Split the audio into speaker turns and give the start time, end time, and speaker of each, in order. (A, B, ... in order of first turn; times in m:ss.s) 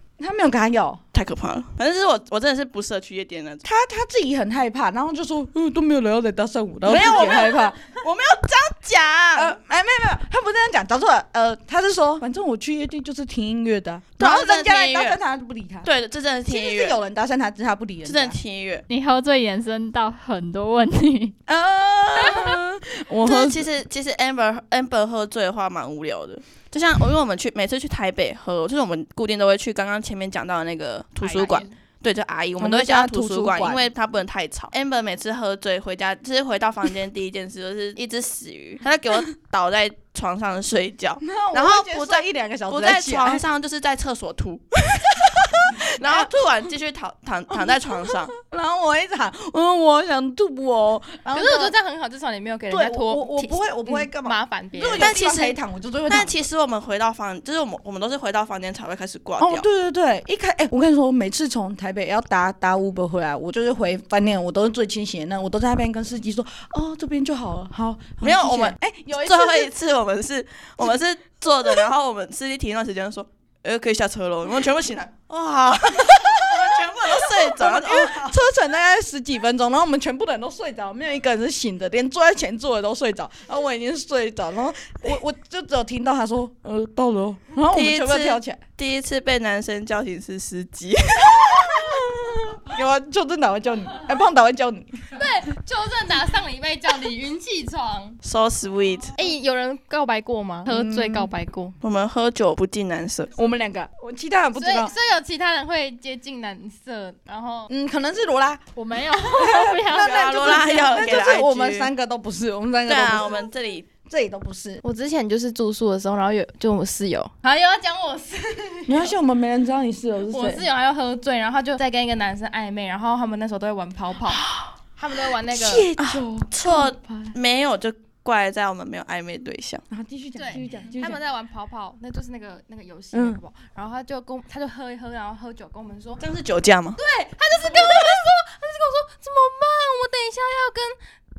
0:00.2-0:01.0 A
0:01.1-0:03.6 B
0:03.6-0:07.8 A
0:06.8-0:09.6 B
0:09.3-0:15.9 A
0:14.2-0:15.2 B
0:15.8-0:17.0 B
0:16.5-0:18.4 A
0:18.0-0:18.8 B
0:18.9-0:21.4 C
0:21.5-0:23.7 A
0:22.2-0:22.5 C
0:23.2-0:48.3 B
0:31.2-0:31.6 C
0:32.6-0:33.9 A
0:41.2-0:43.4 A
0:45.1-0:46.3 A
0:47.5-0:51.7 A
0:51.3-0:55.1 D
0:52.7-0:56.4 A
0:55.0-0:55.6 B
0:56.1-0:59.6 B
0:59.4-1:09.7 A
1:08.2-1:18.4 B
1:15.9-1:28.6 A
1:27.7-1:31.9 B
1:31.4-1:35.2 A
1:35.1-1:38.2 D
1:38.2-1:39.1 B
1:39.2-1:41.8 D
1:40.7-1:41.3 A
1:41.8-1:43.3 B
1:43.4-1:44.9 A
1:44.6-1:47.7 D
1:47.7-1:53.4 A
1:48.8-1:51.0 C
1:49.9-1:51.9 B
1:52.8-1:53.9 B
1:54.0-1:54.8 A
1:54.8-1:59.1 D
1:58.9-2:00.6 A
2:00.3-2:04.4 D
2:05.0-2:05.9 D
2:05.5-2:07.3 A
2:06.0-2:09.8 B
2:09.9-2:11.2 A
2:10.4-2:16.2 D
2:13.1-2:13.4 A
2:16.2-2:17.0 B
2:17.0-2:21.0 D